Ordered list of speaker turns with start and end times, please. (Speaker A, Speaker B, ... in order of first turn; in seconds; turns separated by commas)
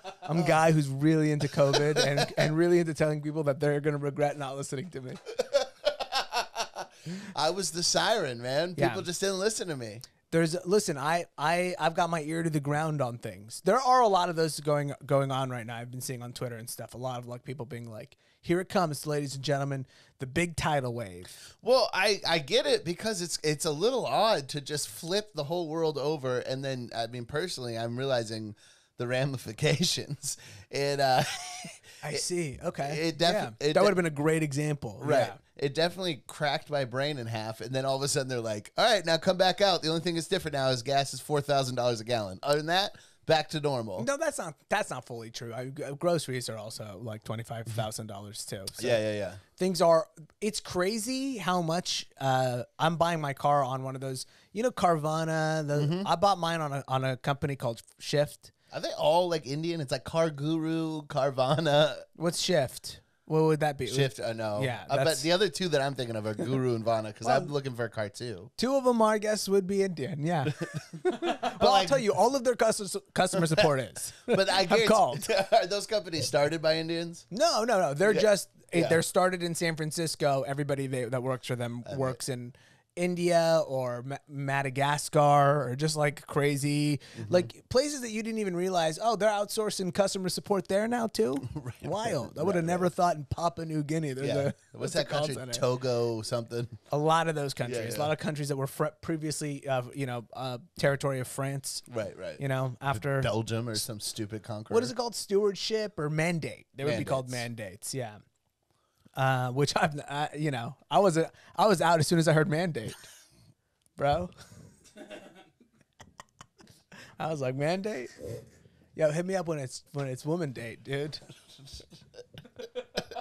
Speaker A: 0.2-5.2, Speaker B: 1.7-2.3, Speaker B: 5.4-10.0, Speaker A: 8.8-9.1, Speaker A: 10.3-21.4, Speaker B: 21.6-32.2, Speaker A: 32.0-35.4, Speaker B: 32.8-34.0, Speaker B: 35.0-44.1, Speaker A: 44.0-49.0, Speaker B: 48.8-49.4, Speaker A: 49.6-58.5, Speaker B: 55.7-56.1, Speaker B: 58.7-62.1, Speaker A: 62.2-65.3, Speaker B: 63.9-68.5, Speaker A: 67.2-67.5, Speaker A: 68.6-75.2, Speaker B: 70.5-70.8, Speaker B: 71.4-72.1, Speaker B: 73.3-73.7, Speaker B: 74.3-77.2, Speaker A: 77.3-95.6, Speaker B: 78.0-79.0, Speaker B: 81.8-82.2, Speaker B: 87.2-87.5, Speaker B: 91.5-92.9, Speaker B: 94.2-96.8, Speaker A: 96.9-101.8, Speaker B: 97.7-98.1, Speaker B: 101.9-104.9, Speaker A: 102.4-103.3, Speaker A: 104.7-108.2, Speaker B: 106.8-107.5, Speaker A: 109.2-113.0, Speaker A: 114.0-114.3, Speaker A: 117.2-118.1, Speaker A: 119.0-121.2